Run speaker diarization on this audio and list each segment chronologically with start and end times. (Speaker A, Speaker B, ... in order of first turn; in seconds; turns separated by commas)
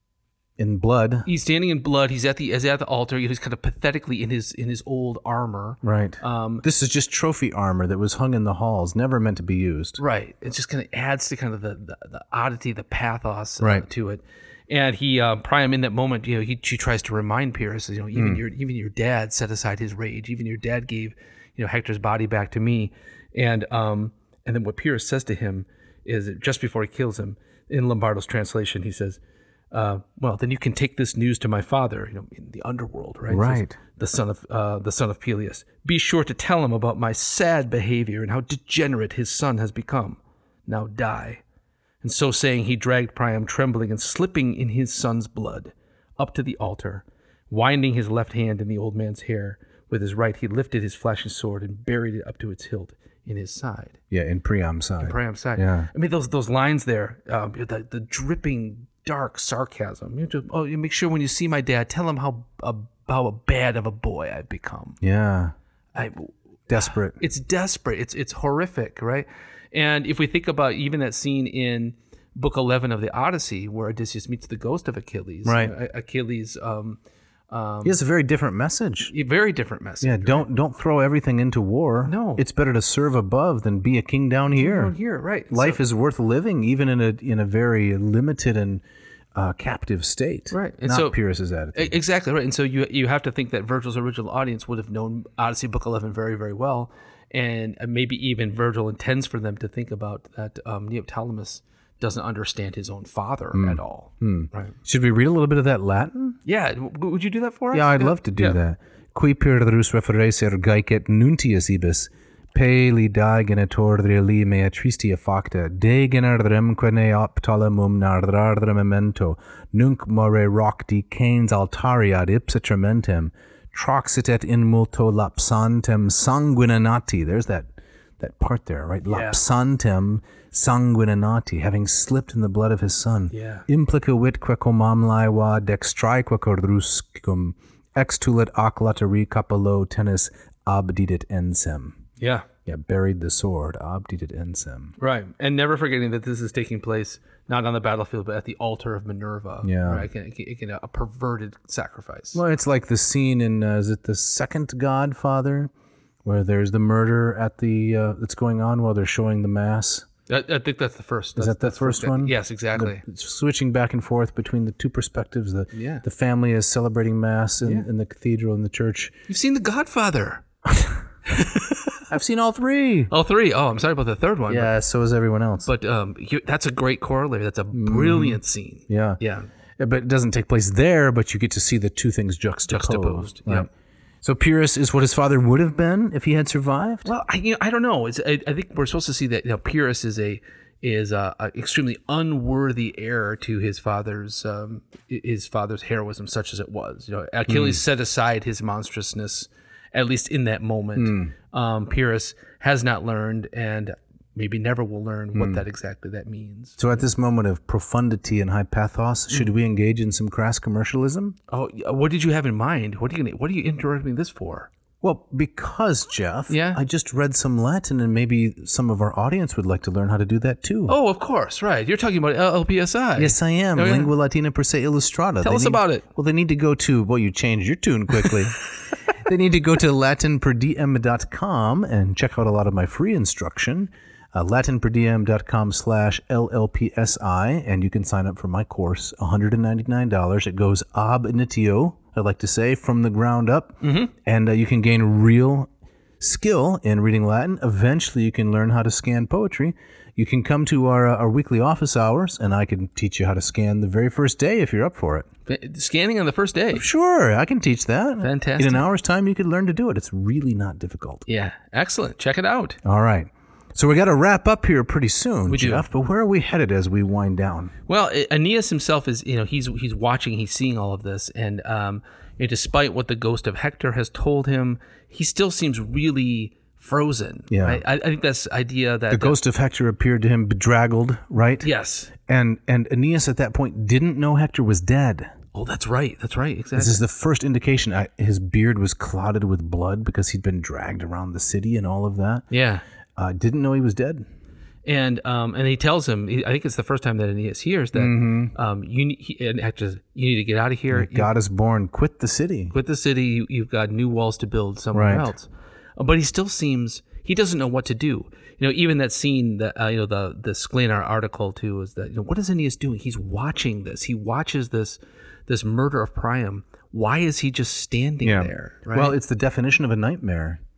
Speaker A: 0.6-1.3, Speaker B: 1.2-6.6, Speaker A: 5.8-10.0, Speaker B: 10.0-29.2, Speaker A: 18.1-18.4, Speaker B: 29.7-41.4, Speaker A: 33.3-33.8, Speaker B: 42.0-54.0, Speaker A: 54.1-55.9, Speaker B: 55.0-65.0, Speaker A: 65.0-65.5, Speaker B: 65.9-66.3, Speaker A: 66.7-67.2, Speaker B: 66.8-77.0, Speaker A: 75.4-75.7, Speaker B: 77.5-78.0, Speaker A: 77.8-79.1, Speaker B: 79.1-80.4, Speaker A: 80.0-84.9, Speaker B: 82.0-82.4, Speaker B: 84.5-85.8, Speaker A: 85.5-88.8, Speaker A: 89.3-91.9, Speaker B: 90.5-91.2, Speaker B: 91.7-104.7, Speaker A: 103.5-106.4, Speaker B: 106.4-108.6, Speaker A: 107.7-142.0, Speaker B: 129.1-129.4, Speaker B: 133.3-133.7, Speaker B: 142.2-142.5, Speaker A: 142.7-144.9, Speaker B: 145.0-152.4, Speaker A: 149.6-150.1, Speaker A: 152.3-155.7, Speaker A: 156.2-160.1, Speaker B: 160.3-163.0, Speaker A: 161.4-169.1, Speaker B: 165.7-166.0, Speaker B: 169.3-170.4, Speaker A: 170.7-171.0, Speaker B: 171.3-171.8, Speaker A: 172.1-173.1, Speaker B: 173.1-174.7, Speaker A: 174.5-175.7, Speaker B: 175.6-179.5, Speaker A: 177.7-179.2, Speaker A: 179.8-183.7, Speaker B: 182.7-183.7, Speaker A: 184.2-187.1, Speaker B: 187.0-206.8, Speaker A: 197.5-197.8, Speaker A: 200.9-201.3, Speaker A: 205.3-205.6, Speaker A: 206.8-211.4, Speaker B: 211.5-214.7, Speaker A: 215.0-220.9, Speaker B: 216.5-216.8, Speaker B: 220.9-224.1, Speaker A: 223.2-228.6, Speaker B: 225.4-226.0, Speaker A: 229.2-255.3, Speaker B: 243.8-244.1, Speaker B: 255.5-256.8, Speaker A: 256.7-261.2, Speaker B: 258.2-258.8, Speaker B: 261.3-262.8, Speaker A: 262.8-267.7, Speaker B: 265.5-265.8, Speaker B: 267.9-279.4, Speaker A: 277.5-277.8, Speaker A: 279.1-285.3, Speaker B: 281.6-282.1, Speaker B: 285.5-287.0, Speaker A: 286.8-292.4, Speaker B: 292.5-292.8, Speaker A: 293.2-294.2, Speaker B: 294.8-301.3, Speaker A: 297.9-298.5, Speaker A: 300.9-302.7, Speaker B: 302.7-319.1, Speaker A: 304.9-305.3, Speaker A: 318.2-320.6